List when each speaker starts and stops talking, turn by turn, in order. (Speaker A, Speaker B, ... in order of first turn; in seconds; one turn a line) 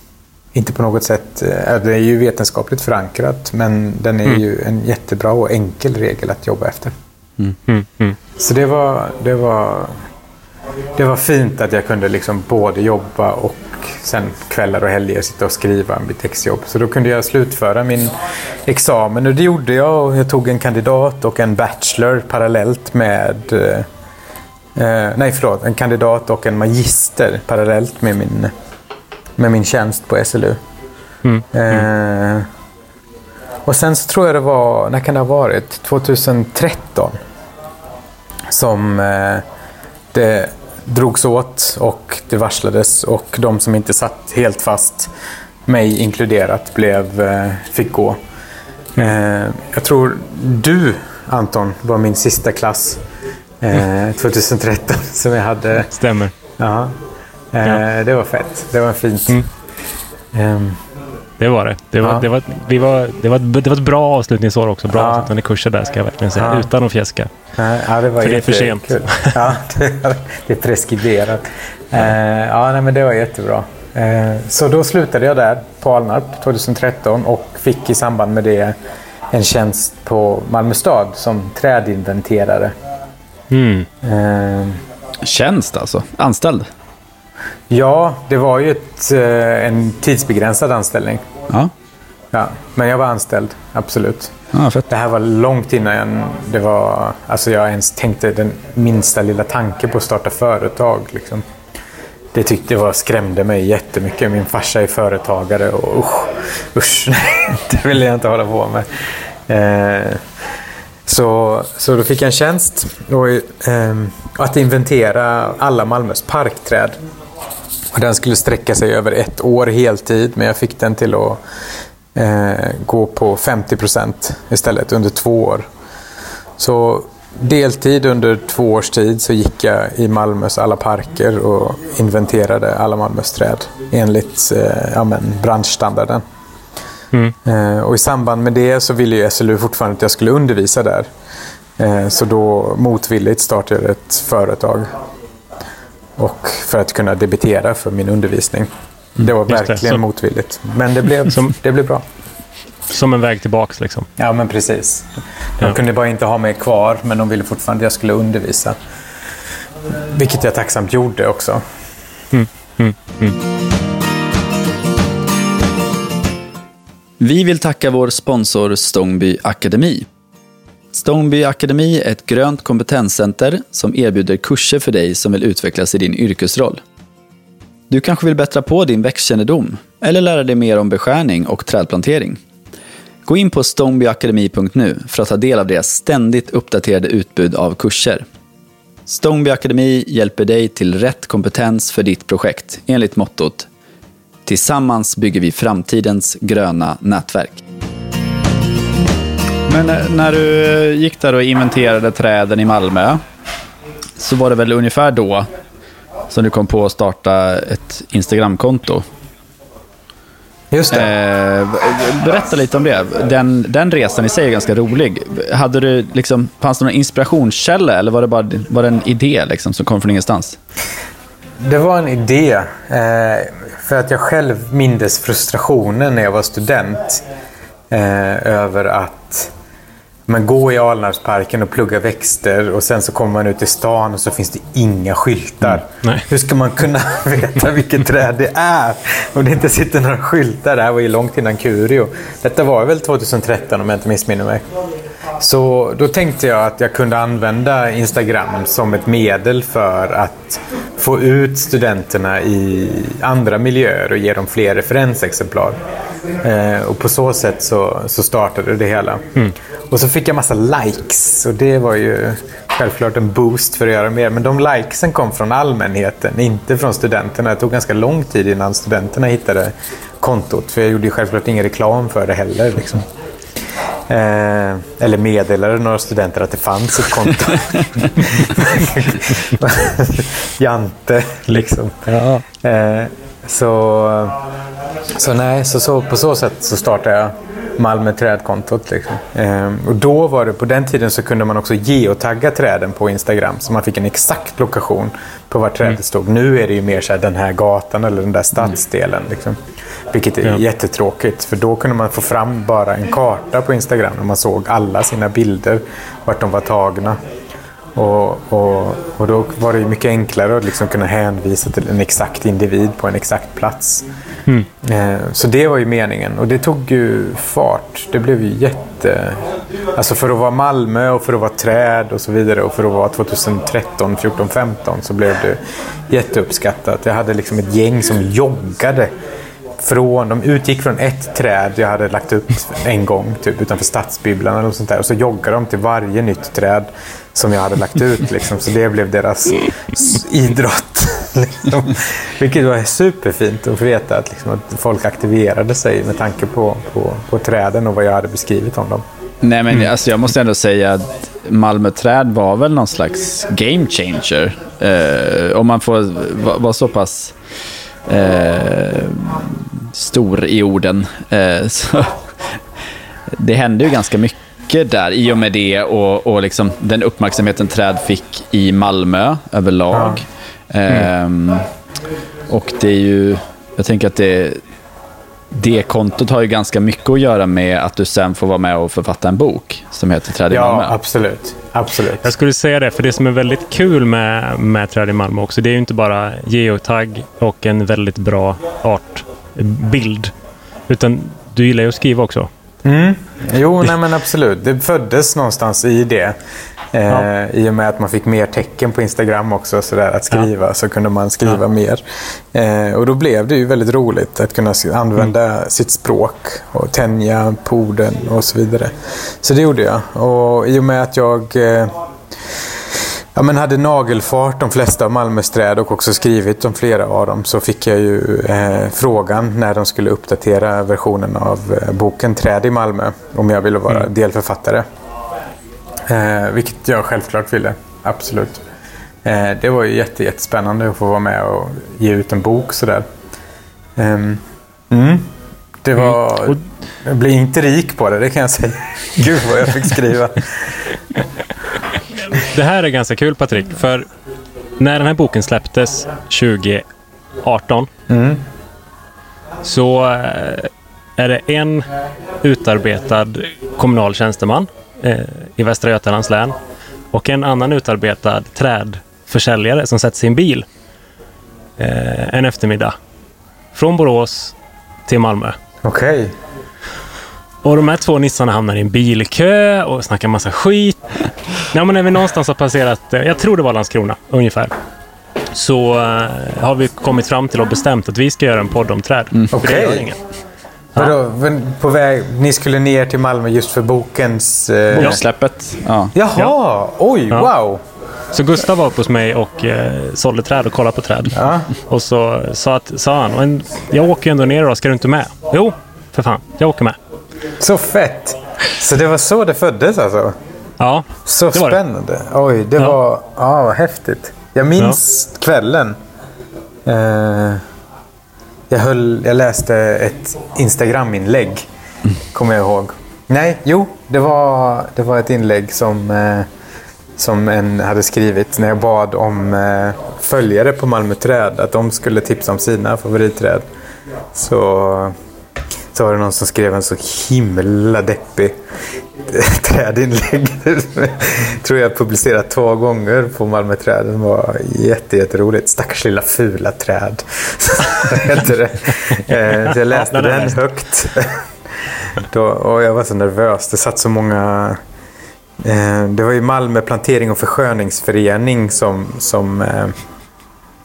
Speaker A: 0.5-6.9
Speaker B: 7.7-8.2
Speaker A: 8.4-10.0
Speaker A: 11.0-23.9
Speaker A: 24.8-28.5
Speaker A: 29.4-30.6
Speaker A: 31.5-32.5
Speaker A: 33.6-37.2
Speaker A: 38.5-39.4
Speaker A: 40.1-45.1
Speaker A: 45.6-48.2
Speaker A: 49.0-53.0
Speaker A: 53.6-55.9
Speaker B: 55.9-56.4
Speaker A: 56.6-56.9
Speaker A: 57.5-59.4
Speaker A: 60.3-60.8
Speaker B: 61.4-67.3
Speaker A: 62.0-62.3
Speaker A: 64.9-65.3
Speaker A: 66.4-66.7
Speaker A: 67.5-78.8
Speaker B: 68.2-69.4
Speaker A: 79.3-82.7
Speaker B: 83.5-83.9
Speaker A: 84.0-84.8
Speaker C: 85.2-86.7
Speaker A: 87.7-91.2
Speaker A: 92.3-94.3
Speaker C: 94.5-94.9
Speaker A: 94.9-101.4
Speaker A: 102.3-110.2
Speaker A: 111.1-117.0
Speaker A: 117.9-121.4
Speaker A: 122.1-125.6
Speaker A: 126.6-136.2
Speaker A: 137.4-141.1
Speaker A: 141.8-144.9
Speaker A: 146.2-152.0
Speaker B: 149.5-150.0
Speaker B: 151.3-151.5
Speaker B: 152.9-154.1
Speaker A: 154.2-158.8
Speaker A: 159.9-161.6
Speaker B: 162.3-163.3
Speaker C: 167.2-170.1
Speaker C: 170.9-176.8
Speaker C: 177.9-182.4
Speaker C: 183.3-188.2
Speaker C: 189.1-193.7
Speaker C: 194.5-197.6
Speaker C: 199.7-203.2
Speaker C: 204.2-205.5
Speaker C: 206.3-209.1
Speaker A: 210.7-211.1
Speaker C: 210.9-220.6
Speaker A: 221.6-227.2
Speaker A: 227.9-229.5
Speaker A: 230.3-244.6
Speaker A: 245.4-255.8
Speaker A: 256.4-259.3
Speaker A: 259.9-273.1
Speaker A: 274.1-284.4
Speaker B: 282.1-282.4
Speaker A: 285.1-299.6
Speaker A: 300.1-307.2
Speaker A: 307.9-314.1
Speaker A: 314.8-329.1
Speaker A: 329.8-349.0
Speaker C: 349.4-357.4
Speaker C: 358.1-362.6
Speaker C: 363.4-371.6
Speaker A: 369.9-370.2
Speaker C: 372.5-374.6
Speaker C: 375.5-381.0
Speaker A: 380.5-382.3
Speaker B: 382.2-390.3
Speaker B: 390.9-392.5
Speaker A: 392.8-396.4
Speaker A: 396.9-411.9
Speaker A: 412.9-424.9
Speaker A: 426.1-428.6
Speaker A: 429.2-433.1
Speaker A: 434.0-435.3
Speaker A: 435.8-441.2
Speaker B: 442.3-444.1
Speaker B: 444.8-446.9
Speaker B: 447.4-447.9
Speaker A: 448.1-448.4
Speaker B: 449.6-451.9
Speaker B: 452.4-456.6
Speaker B: 457.1-460.7
Speaker B: 461.8-463.0
Speaker B: 463.7-464.6
Speaker B: 465.1-465.6
Speaker A: 465.8-466.3
Speaker B: 467.6-474.7
Speaker B: 475.5-480.2
Speaker A: 479.5-480.1
Speaker A: 481.0-485.2
Speaker C: 484.9-486.1
Speaker A: 486.1-487.8
Speaker B: 488.3-497.0
Speaker A: 491.3-491.7
Speaker A: 497.6-500.4
Speaker B: 500.8-501.8
Speaker A: 501.2-505.9
Speaker A: 506.9-507.6
Speaker A: 508.7-511.6
Speaker A: 512.3-516.5
Speaker A: 517.2-523.7
Speaker A: 524.3-525.1
Speaker A: 525.9-544.8
Speaker B: 539.4-540.6
Speaker A: 545.6-550.0